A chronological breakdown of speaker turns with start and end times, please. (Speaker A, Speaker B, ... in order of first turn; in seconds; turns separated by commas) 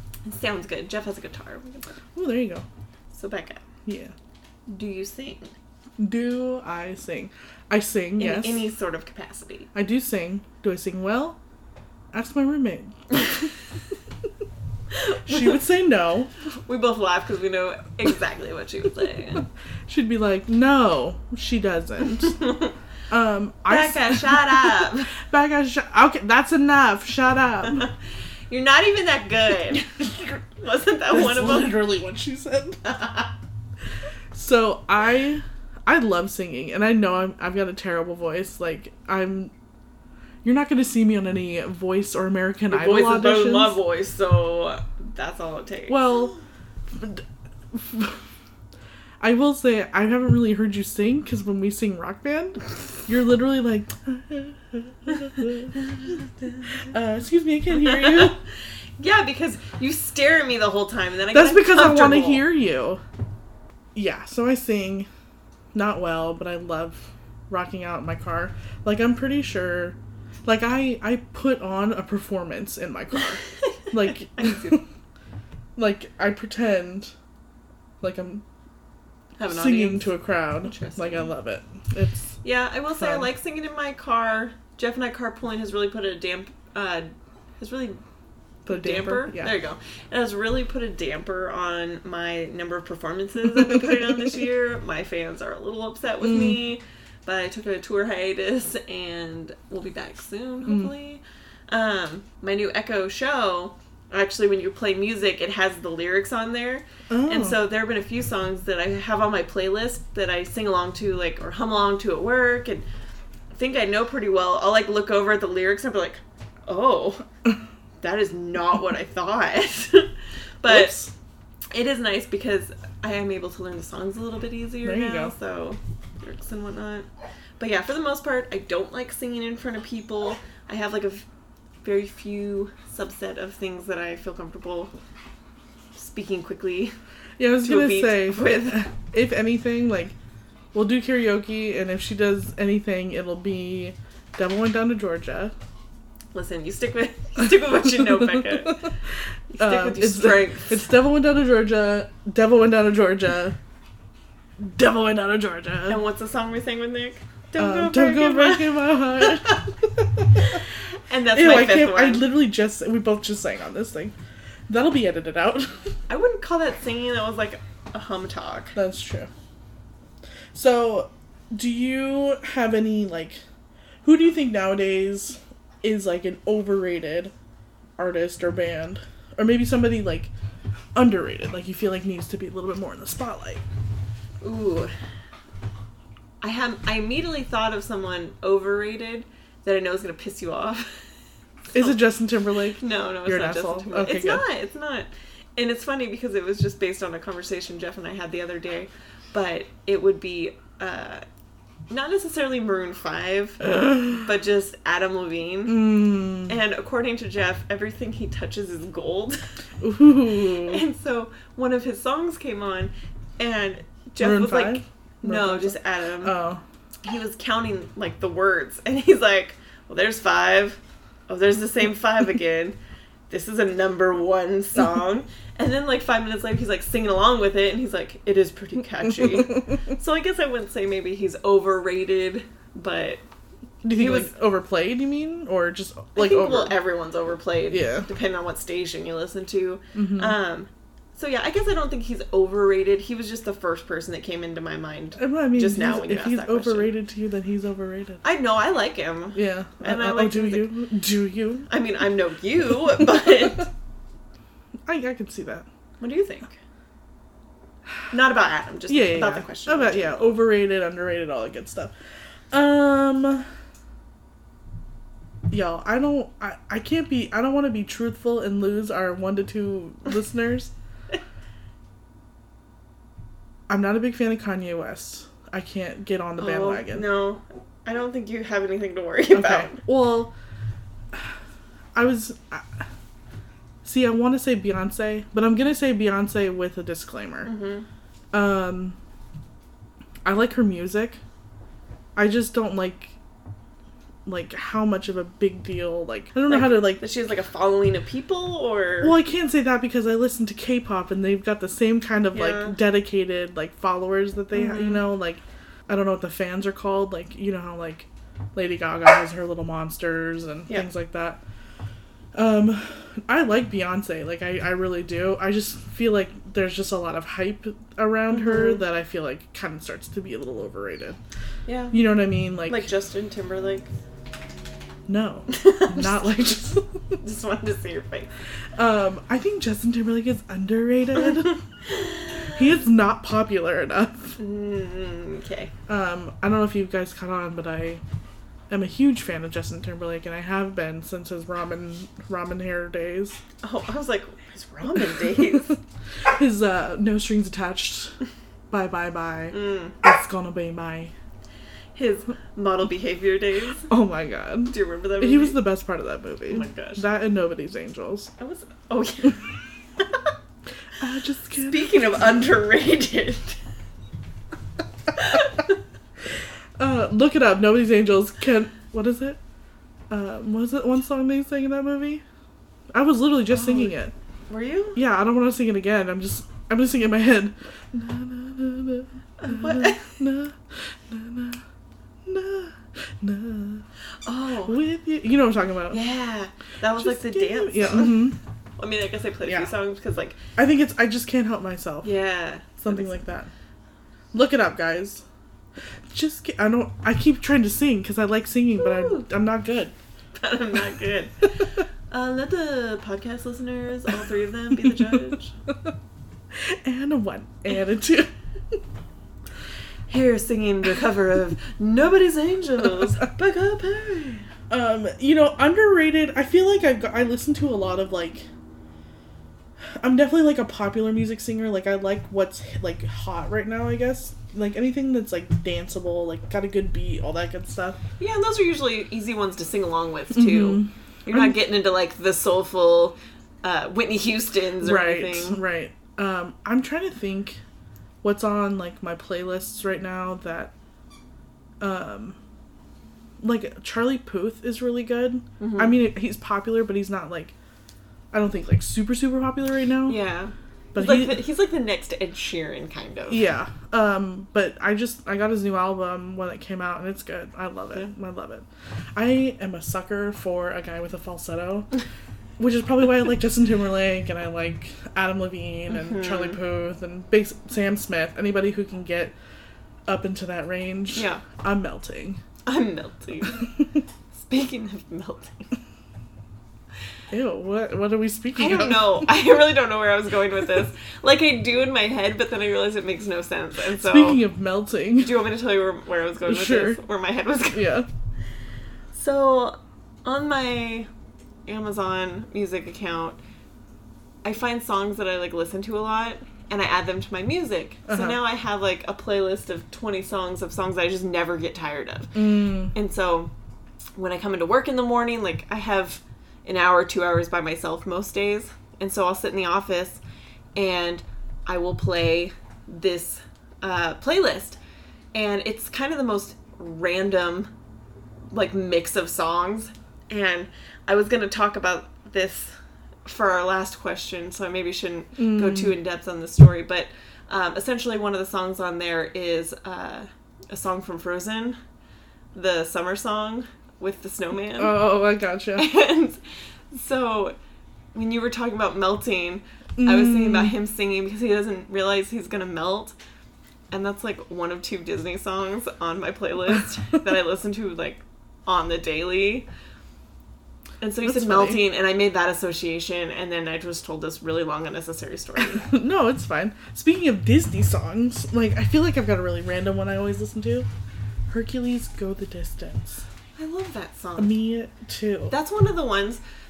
Speaker A: 0.2-1.9, Speaker B: 2.1-2.6, Speaker A: 3.1-3.6, Speaker B: 3.9-4.1, Speaker A: 4.7-5.5, Speaker B: 6.0-8.7, Speaker A: 8.2-9.7, Speaker B: 9.8-11.4, Speaker B: 12.1-13.5, Speaker A: 14.9-15.6, Speaker B: 15.2-16.3, Speaker A: 16.5-19.5, Speaker B: 19.9-22.4, Speaker A: 22.4-22.7, Speaker B: 23.1-27.9, Speaker A: 23.7-25.1, Speaker A: 28.5-31.8, Speaker B: 31.1-33.1, Speaker B: 34.3-39.5, Speaker B: 40.4-43.8, Speaker A: 42.7-46.1, Speaker B: 45.9-46.3, Speaker B: 46.9-48.2, Speaker B: 49.2-56.2, Speaker B: 56.8-58.4, Speaker A: 57.8-58.4, Speaker A: 59.0-62.5, Speaker B: 61.3-63.0, Speaker B: 64.0-65.1, Speaker B: 65.7-74.8, Speaker A: 74.1-74.8, Speaker B: 75.8-77.1, Speaker B: 78.0-78.4, Speaker A: 79.4-81.3, Speaker B: 79.5-82.4, Speaker A: 82.4-88.0, Speaker B: 83.0-83.3, Speaker B: 88.7-89.5, Speaker A: 88.7-112.8, Speaker B: 96.2-96.6, Speaker B: 100.7-100.9, Speaker B: 107.1-107.6, Speaker A: 113.5-117.2, Speaker A: 118.0-121.0, Speaker B: 120.7-121.1, Speaker A: 121.7-127.1, Speaker B: 124.8-125.3, Speaker A: 127.6-131.3, Speaker A: 131.8-134.9, Speaker A: 135.9-136.9, Speaker B: 137.4-140.1, Speaker A: 137.6-138.8, Speaker B: 140.7-145.6, Speaker A: 146.3-148.9, Speaker B: 148.1-148.7, Speaker A: 149.5-150.9, Speaker B: 149.6-153.6, Speaker B: 154.6-156.0, Speaker A: 155.9-159.6, Speaker B: 157.6-160.3, Speaker A: 160.4-162.2, Speaker B: 161.3-164.1, Speaker B: 164.7-166.0, Speaker A: 166.1-168.8, Speaker B: 168.8-169.3, Speaker B: 170.5-173.4, Speaker B: 174.0-177.3, Speaker B: 178.0-180.3, Speaker B: 180.9-183.6, Speaker A: 184.4-184.9, Speaker A: 186.4-191.1, Speaker B: 191.7-194.4, Speaker A: 192.8-201.2, Speaker A: 201.9-209.5, Speaker B: 203.7-204.2, Speaker B: 205.7-206.6, Speaker B: 209.8-210.8, Speaker A: 210.5-216.4, Speaker B: 214.2-216.6, Speaker A: 217.0-222.8, Speaker A: 223.3-233.2, Speaker B: 233.8-236.8, Speaker A: 233.9-234.3, Speaker A: 236.2-246.9, Speaker B: 237.7-238.1, Speaker B: 239.9-240.4, Speaker B: 245.2-248.2, Speaker A: 248.2-250.7, Speaker B: 249.3-251.7, Speaker A: 251.7-253.7, Speaker B: 254.9-255.7, Speaker A: 256.0-256.6, Speaker A: 258.1-260.4, Speaker B: 258.9-261.9, Speaker B: 262.5-263.5, Speaker B: 265.5-270.7, Speaker B: 273.7-277.1, Speaker A: 276.4-279.8, Speaker B: 279.3-280.3, Speaker B: 281.9-282.9, Speaker B: 283.8-287.5, Speaker A: 287.4-287.9, Speaker B: 288.3-289.0, Speaker B: 290.2-291.2, Speaker B: 292.2-293.1, Speaker B: 294.3-297.0, Speaker A: 296.5-299.2, Speaker B: 299.0-311.4, Speaker A: 302.3-302.8, Speaker A: 304.5-305.1, Speaker B: 312.3-321.2, Speaker A: 318.3-318.8, Speaker A: 321.7-322.0, Speaker B: 321.9-322.9, Speaker A: 322.6-323.9, Speaker B: 325.1-327.2, Speaker A: 325.5-326.6, Speaker A: 327.2-328.3, Speaker B: 328.8-331.6, Speaker A: 331.4-332.6, Speaker B: 332.4-334.4, Speaker A: 334.4-335.7, Speaker B: 335.9-338.0, Speaker B: 338.7-343.4, Speaker A: 343.6-345.8, Speaker B: 346.2-348.2, Speaker B: 348.7-351.1, Speaker A: 349.5-349.9, Speaker A: 351.9-353.9, Speaker B: 353.9-358.3, Speaker A: 354.7-355.6, Speaker A: 356.5-357.0, Speaker A: 358.4-360.3, Speaker B: 361.0-361.9, Speaker A: 361.5-363.6, Speaker A: 365.1-365.7, Speaker B: 366.8-369.4, Speaker B: 370.1-372.2, Speaker B: 372.9-374.1, Speaker A: 373.5-373.9, Speaker A: 374.5-375.0, Speaker B: 374.9-381.6, Speaker A: 379.4-380.1, Speaker B: 382.2-383.9, Speaker A: 384.2-384.8, Speaker B: 384.7-386.0, Speaker A: 385.9-388.3, Speaker B: 387.0-388.4, Speaker A: 388.8-390.4, Speaker B: 389.4-389.7, Speaker B: 390.6-392.1, Speaker A: 392.0-393.2, Speaker B: 392.8-393.5, Speaker B: 394.3-395.2, Speaker B: 396.1-399.9, Speaker A: 398.8-399.3, Speaker A: 400.4-405.5, Speaker B: 404.8-405.9, Speaker B: 406.6-408.8, Speaker A: 410.1-414.5, Speaker B: 414.7-418.5, Speaker B: 420.0-428.0, Speaker A: 428.2-435.6, Speaker B: 430.3-431.5, Speaker B: 434.8-437.6, Speaker B: 438.2-440.7, Speaker B: 441.8-442.4, Speaker B: 443.4-447.5, Speaker A: 445.6-446.0, Speaker B: 448.3-450.2, Speaker A: 450.1-453.4, Speaker B: 450.9-451.4, Speaker B: 453.3-461.9, Speaker B: 462.6-469.3, Speaker A: 465.9-466.6, Speaker B: 470.1-472.4, Speaker A: 471.1-471.4, Speaker A: 472.6-473.8, Speaker A: 474.3-475.7, Speaker B: 477.3-479.3, Speaker A: 478.6-484.4, Speaker B: 484.0-485.4, Speaker A: 485.2-487.9, Speaker B: 486.5-487.0, Speaker B: 487.7-488.1, Speaker A: 489.1-491.1, Speaker A: 491.7-493.4, Speaker A: 494.4-503.5, Speaker B: 498.1-498.4, Speaker B: 502.4-502.9, Speaker A: 504.2-510.2, Speaker A: 510.8-514.8, Speaker A: 515.3-517.7, Speaker A: 518.5-531.8, Speaker B: 525.4-526.0, Speaker A: 532.5-535.0, Speaker B: 534.8-535.9, Speaker A: 535.8-536.4, Speaker A: 536.9-537.6, Speaker A: 538.1-543.1, Speaker B: 540.0-540.7, Speaker A: 543.9-549.7, Speaker A: 551.0-556.0, Speaker B: 551.2-551.8, Speaker B: 555.6-560.9, Speaker B: 561.5-563.3, Speaker A: 563.6-564.6, Speaker B: 564.4-565.5, Speaker A: 565.5-566.4